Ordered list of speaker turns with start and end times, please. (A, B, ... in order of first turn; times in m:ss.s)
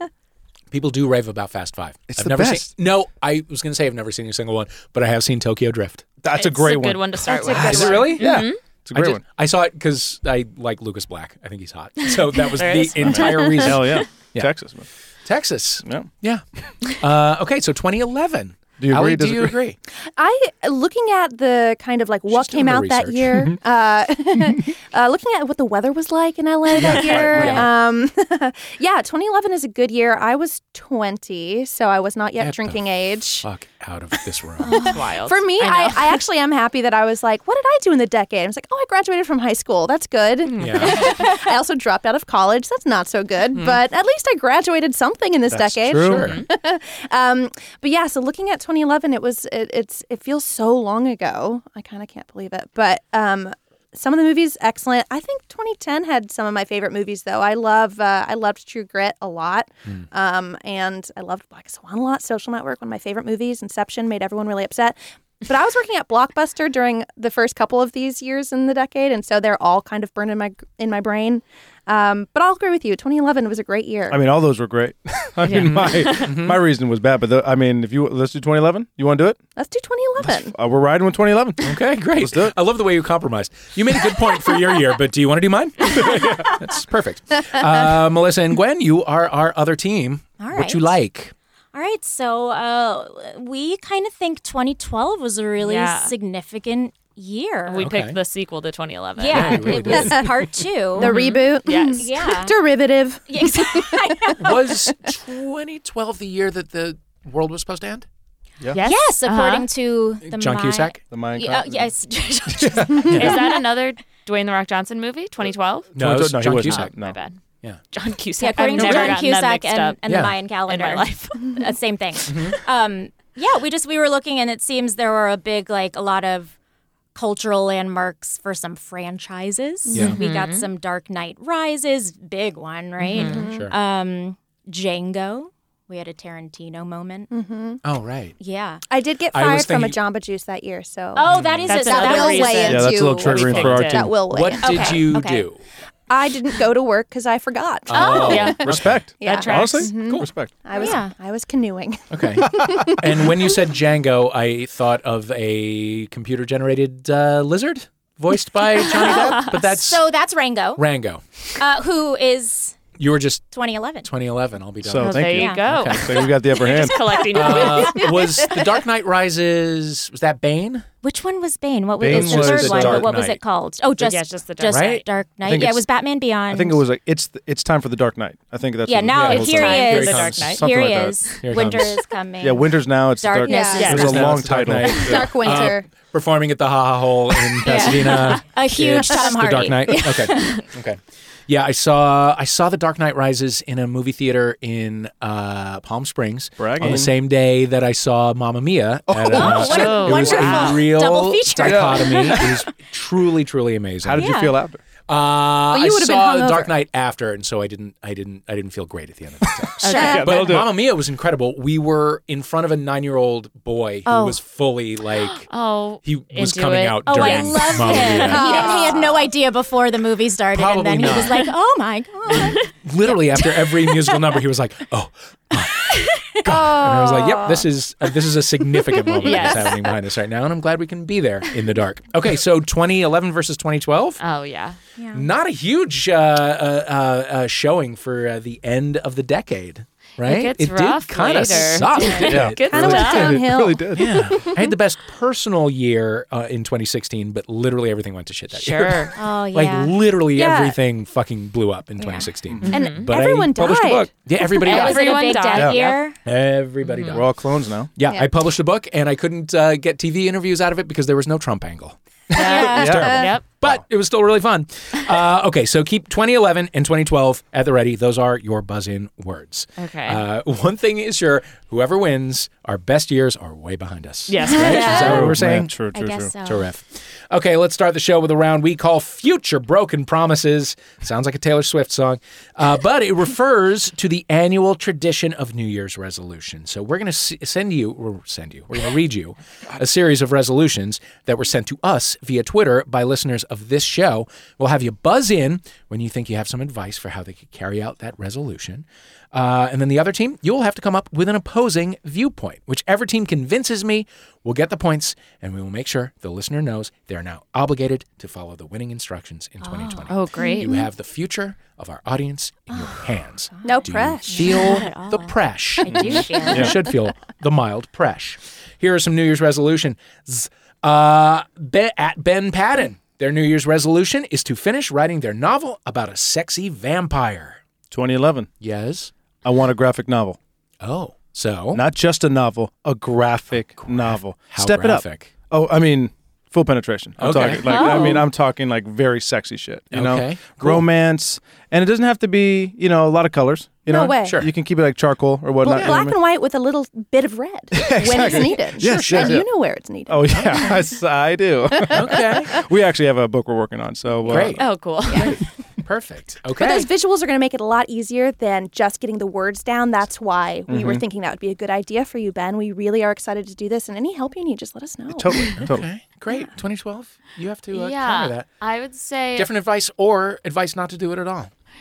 0:00.7-0:06.1 A
0:02.1-0:02.7 B
0:06.2-0:09.2 B
0:06.3-0:08.6 C
0:07.3-0:08.1 D
0:07.6-0:08.4 A
0:08.9-0:14.5 A
0:12.4-0:14.0 C
0:13.1-0:14.9 B
0:15.2-0:19.8 A
0:18.8-0:19.6 B
0:20.2-0:33.5 D
0:22.3-0:23.3 A
0:26.7-0:27.7 A
0:27.1-0:27.6 B
0:32.4-0:32.8 A
0:33.4-0:34.8 A
0:34.6-1:14.2 D
0:34.7-0:34.9 E
0:34.8-0:36.2 C
0:40.4-0:41.0 C
0:40.6-0:41.1 A
0:45.5-0:46.4 B
0:45.8-0:46.4 A
1:14.1-1:19.4 B
1:15.4-1:16.2 C
1:16.2-1:16.6 A
1:19.6-1:20.6 D
1:20.2-1:22.6 B
1:21.6-1:31.3 A
1:30.4-1:30.9 E
1:31.7-1:37.8 E
1:35.6-1:36.1 C
1:37.7-1:39.8 C
1:37.8-1:38.2 A
1:39.2-1:41.3 E
1:39.3-1:40.2 A
1:39.9-1:40.4 D
1:41.0-1:45.1 D
1:41.0-1:42.1 C
1:42.0-1:42.6 E
1:43.3-1:44.4 E
1:44.4-1:48.1 A
1:48.7-1:49.7 C
1:48.8-1:53.6 E
1:50.2-1:51.0 A
1:51.1-1:51.9 B
1:52.6-1:53.1 B
1:53.0-1:53.4 A
1:53.2-1:57.4 C
1:56.0-1:56.9 A
1:56.0-1:57.2 B
1:57.9-2:00.0 C
1:58.4-2:06.6 E
1:58.7-1:59.2 A
2:00.1-2:00.4 A
2:00.7-2:01.6 C
2:02.3-2:02.6 A
2:07.2-2:17.3 E
2:09.9-2:10.2 A
2:10.2-2:10.7 C
2:13.2-2:13.4 C
2:13.2-2:13.8 A
2:13.2-2:13.6 D
2:17.3-2:17.8 D
2:17.8-2:18.4 A
2:18.4-2:18.8 E
2:18.9-2:21.3 D
2:19.3-2:20.0 A
2:21.2-2:23.0 E
2:21.3-2:21.7 A
2:21.7-2:24.1 C
2:21.8-2:25.1 D
2:22.7-2:24.2 B
2:23.5-2:25.6 A
2:24.6-2:25.5 E
2:26.1-2:33.4 D
2:27.9-2:29.0 A
2:27.9-2:28.5 E
2:28.2-2:28.6 C
2:28.6-2:30.5 B
2:29.2-2:29.9 C
2:30.0-2:30.3 A
2:30.8-2:31.1 E
2:32.1-2:40.0 A
2:32.6-2:33.0 B
2:39.0-2:39.4 C
2:39.0-2:40.8 E
2:40.8-2:41.2 A
2:41.6-2:42.8 E
2:43.0-2:43.5 A
2:43.5-2:44.1 E
2:44.0-2:46.1 A
2:44.8-2:47.2 B
2:45.0-2:45.9 E
2:45.0-2:48.1 C
2:47.3-2:50.9 A
2:47.6-2:48.0 E
2:51.0-2:56.8 E
2:52.0-2:53.1 B
2:52.1-2:53.4 A
2:54.0-2:55.0 C
2:54.7-2:55.0 A
2:55.4-2:55.8 B
2:56.5-3:01.2 B
2:58.9-3:04.3 E
2:59.1-3:00.4 A
2:59.3-3:00.6 C
3:01.4-3:02.0 A
3:02.4-3:05.7 B
3:03.5-3:04.2 D
3:03.7-3:04.2 C
3:03.8-3:24.3 A
3:04.8-3:05.9 D
3:07.6-3:10.6 E
3:07.7-3:08.4 C
3:10.3-3:10.6 C
3:16.6-3:17.1 B
3:19.1-3:20.0 B
3:19.3-3:22.5 E
3:19.5-3:20.8 C
3:21.6-3:22.6 B
3:24.0-3:24.8 B
3:24.2-3:24.6 E
3:25.1-3:35.5 A
3:25.7-3:26.7 D
3:29.6-3:30.8 B
3:29.8-3:30.5 E
3:29.9-3:30.2 C
3:34.1-3:34.4 E
3:35.2-3:39.0 C
3:36.0-3:38.6 A
3:37.1-3:43.5 E
3:38.3-3:39.3 D
3:40.5-3:41.5 A
3:42.3-3:54.2 A
3:46.0-3:46.4 E
3:46.5-3:47.7 D
3:49.2-3:49.8 C
3:54.2-3:54.8 C
3:55.0-3:55.3 E
3:55.1-4:02.7 A
4:00.2-4:03.4 C
4:01.8-4:02.4 E
4:02.3-4:04.4 B
4:02.7-4:04.7 D
4:03.9-4:15.1 A
4:08.5-4:09.1 C
4:09.2-4:10.0 E
4:10.3-4:10.8 D
4:12.0-4:12.3 E
4:12.7-4:13.1 C
4:12.7-4:14.3 D
4:14.5-4:16.2 E
4:14.6-4:16.0 C
4:16.2-4:17.4 A
4:16.8-4:17.2 C
4:17.1-4:17.9 B
4:18.0-4:22.0 A
4:22.3-4:23.4 C
4:22.4-4:23.1 E
4:22.5-4:23.8 B
4:22.7-4:35.7 A
4:23.0-4:23.2 D
4:29.8-4:30.2 C
4:34.3-4:35.2 C
4:34.6-4:35.3 E
4:34.9-4:36.3 B
4:35.9-4:36.7 E
4:36.4-5:27.6 A
5:09.6-5:10.9 E
5:10.1-5:10.7 C
5:12.7-5:16.9 E
5:13.6-5:14.7 D
5:15.9-5:16.7 B
5:27.9-5:28.5 B
5:28.6-5:29.1 A
5:29.4-5:30.4 B
5:30.8-5:31.8 A
5:31.7-5:46.2 B
5:33.8-5:35.3 A
5:37.2-5:38.2 A
5:37.7-5:38.2 E
5:39.9-5:40.9 A
5:43.9-5:44.4 D
5:44.2-5:44.5 A
5:45.6-5:50.8 D
5:45.7-5:46.0 A
5:47.7-5:49.5 B
5:48.2-5:49.4 A
5:50.1-5:54.7 B
5:51.8-5:52.4 D
5:51.9-5:52.6 A
5:54.3-5:56.9 A
5:54.6-5:55.4 C
5:56.6-6:05.6 D
6:00.7-6:01.0 B
6:05.1-6:05.9 B
6:05.6-6:08.5 A
6:07.7-6:09.5 C
6:09.4-6:11.5 A